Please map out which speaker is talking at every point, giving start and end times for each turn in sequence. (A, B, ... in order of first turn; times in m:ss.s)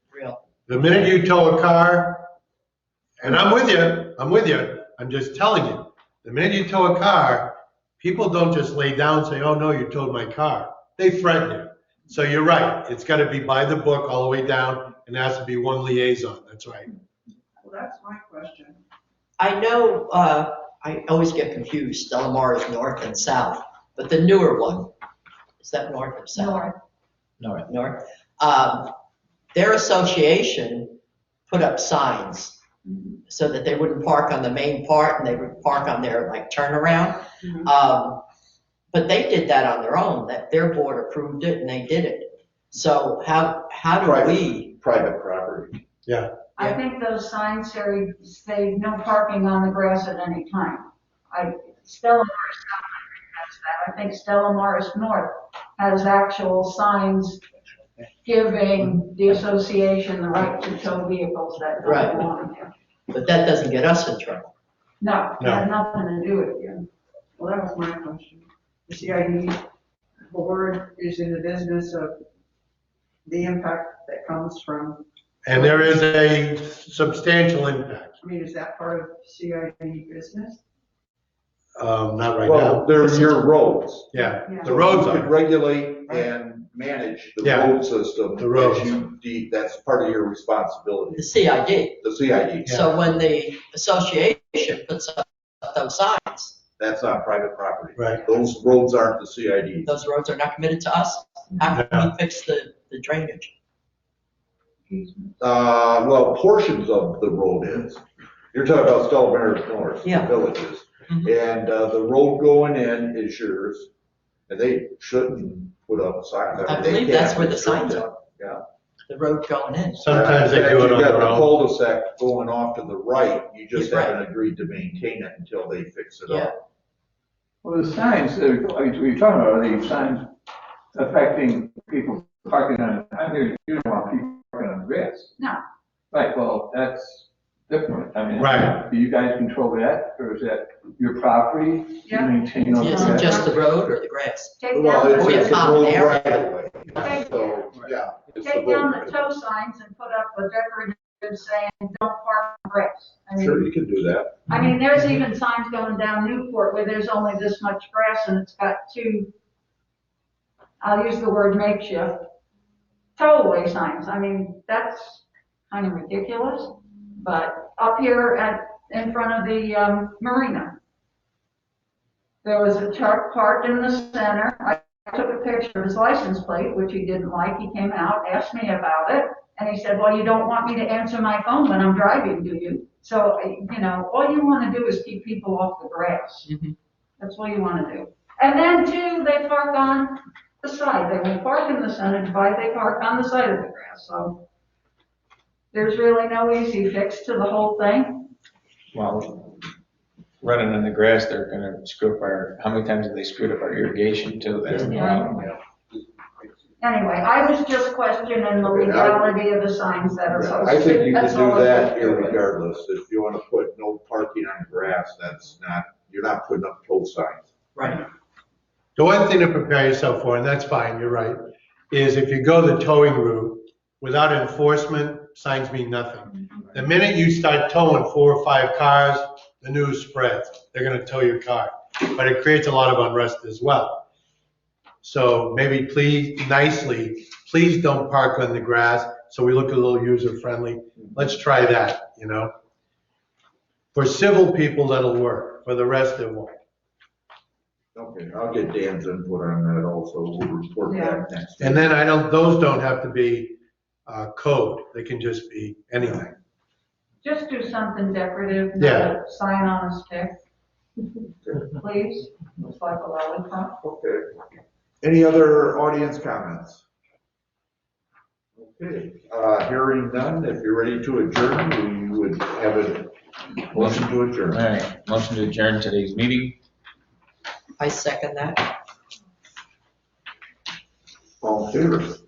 0:00.1-0:00.4 A
0:00.7-0:02.3 B
0:03.2-0:16.9 B
0:17.6-0:18.8 C
0:19.4-0:24.9 A
0:25.6-0:26.5 A
0:26.3-0:26.8 D
0:27.4-0:27.6 E
0:27.7-0:28.9 A
0:29.5-0:30.8 A
0:31.5-0:32.6 A
0:32.8-0:33.2 D
0:33.3-0:38.2 A
0:37.4-0:37.7 C
0:38.9-0:42.2 A
0:42.7-0:44.7 A
0:43.9-0:45.8 F
0:46.1-0:46.3 B
0:46.6-0:57.4 D
0:58.2-1:02.7 D
1:03.1-1:04.5 A
1:05.0-1:06.9 D
1:05.4-1:05.7 B
1:07.4-1:09.6 C
1:10.3-1:12.2 C
1:13.3-1:15.9 C
1:15.4-1:18.2 B
1:18.2-1:20.6 C
1:21.8-1:23.4 B
1:22.4-1:33.0 F
1:24.1-1:25.3 B
1:24.4-1:24.8 C
1:27.4-1:27.8 B
1:28.4-1:29.0 B
1:31.2-1:31.9 A
1:32.8-1:36.6 A
1:36.8-1:39.9 F
1:38.0-1:38.2 B
1:39.9-1:43.5 A
1:41.7-1:42.1 B
1:44.9-1:45.3 C
1:45.4-1:53.9 F
1:54.5-1:58.6 F
1:56.7-1:58.1 A
1:59.1-2:00.0 A
2:00.0-2:06.6 F
2:00.0-2:01.5 B
2:03.7-2:04.2 A
2:06.3-2:06.5 A
2:07.6-2:10.3 G
2:10.9-2:15.4 G
2:16.1-2:23.5 G
2:18.4-2:18.8 B
2:22.1-2:23.6 D
2:24.0-2:24.3 A
2:24.6-2:25.9 D
2:24.7-2:29.3 F
2:25.8-2:26.4 A
2:26.9-2:27.6 D
2:28.4-2:33.7 D
2:33.4-2:34.6 F
2:34.5-2:39.3 D
2:40.8-2:42.3 D
2:43.2-2:50.8 D
2:52.4-3:06.5 D
3:07.2-3:14.4 D
3:15.7-3:18.3 D
3:18.9-3:19.5 E
3:20.4-3:25.3 E
3:24.7-3:25.4 F
3:24.8-3:25.5 D
3:26.8-3:32.4 D
3:28.6-3:29.3 F
3:30.3-3:37.5 F
3:37.8-3:38.0 A
3:39.0-3:41.4 B
3:41.9-3:54.1 B
3:55.0-4:02.5 B
4:03.9-4:06.6 B
4:07.9-4:11.9 F
4:10.8-4:11.2 D
4:11.6-4:16.3 B
4:17.2-4:20.4 D
4:18.8-4:19.1 B
4:21.4-4:21.7 F
4:21.6-4:23.7 D
4:23.8-4:24.3 F
4:25.0-4:26.8 F
4:28.6-4:33.1 F
4:33.7-4:34.6 F
4:33.8-4:36.6 E
4:37.8-4:38.7 A
4:41.4-4:42.2 F